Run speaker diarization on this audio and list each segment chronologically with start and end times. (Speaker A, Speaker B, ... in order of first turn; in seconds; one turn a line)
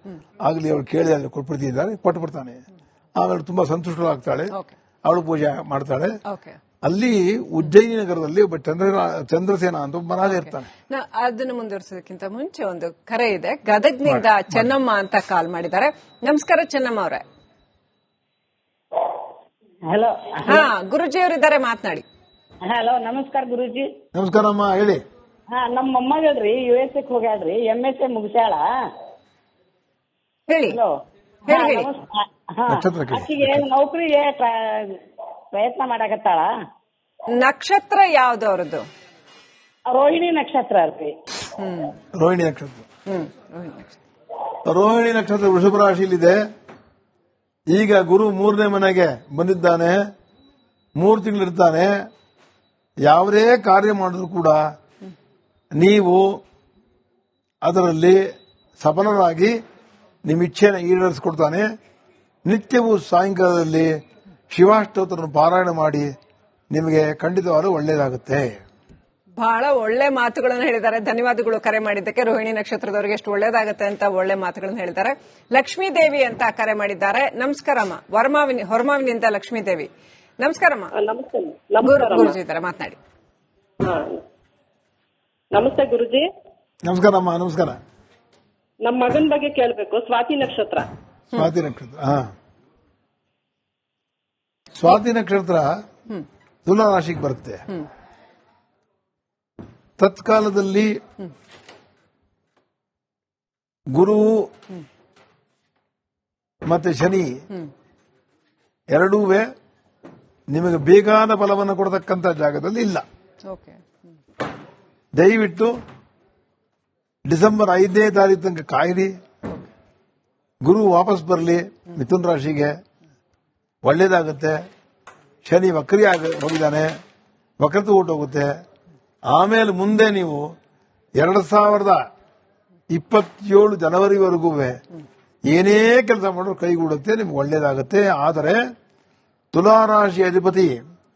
Speaker A: 0.4-2.6
Speaker A: 3.2-4.5
Speaker A: 5.0-6.2
Speaker B: 6.2-6.6
Speaker A: 6.8-10.7
Speaker B: 10.3-17.2
Speaker A: 14.1-14.7
Speaker C: 19.9-20.7
Speaker B: 20.4-22.0
Speaker C: 22.6-23.9
Speaker A: 24.1-25.0
Speaker C: 25.5-28.6
Speaker B: 30.5-30.8
Speaker B: 31.5-31.9
Speaker C: 31.5-35.0
Speaker A: 32.7-33.6
Speaker C: 35.5-36.5
Speaker B: 37.3-38.9
Speaker C: 39.9-41.1
Speaker B: 41.6-42.0
Speaker A: 42.2-42.8
Speaker B: 43.1-44.0
Speaker A: 44.6-46.4
Speaker A: 47.7-50.0
Speaker A: 51.0-51.9
Speaker A: 53.0-54.6
Speaker A: 55.7-56.4
Speaker A: 57.6-58.2
Speaker A: 58.8-59.5
Speaker A: 60.2-61.6
Speaker A: 62.4-63.9
Speaker A: 64.5-66.1
Speaker A: 66.7-68.6
Speaker B: 69.4-79.9
Speaker B: 80.4-80.9
Speaker D: 81.0-82.4
Speaker B: 81.8-83.0
Speaker D: 83.8-84.2
Speaker D: 85.5-86.3
Speaker A: 86.8-87.8
Speaker D: 88.8-90.9
Speaker A: 91.3-92.3
Speaker A: 94.7-95.8
Speaker A: 96.7-97.7
Speaker A: 100.0-101.0
Speaker A: 103.9-104.5
Speaker A: 106.6-107.4
Speaker A: 108.9-109.5
Speaker A: 110.5-113.0
Speaker B: 113.5-113.8
Speaker A: 115.1-115.8
Speaker A: 117.2-119.1
Speaker A: 120.6-122.7
Speaker A: 123.8-124.6
Speaker A: 125.4-126.9
Speaker A: 127.6-128.5
Speaker A: 129.3-130.5
Speaker A: 131.2-132.0
Speaker A: 132.9-134.8
Speaker A: 135.5-138.6
Speaker A: 139.5-140.8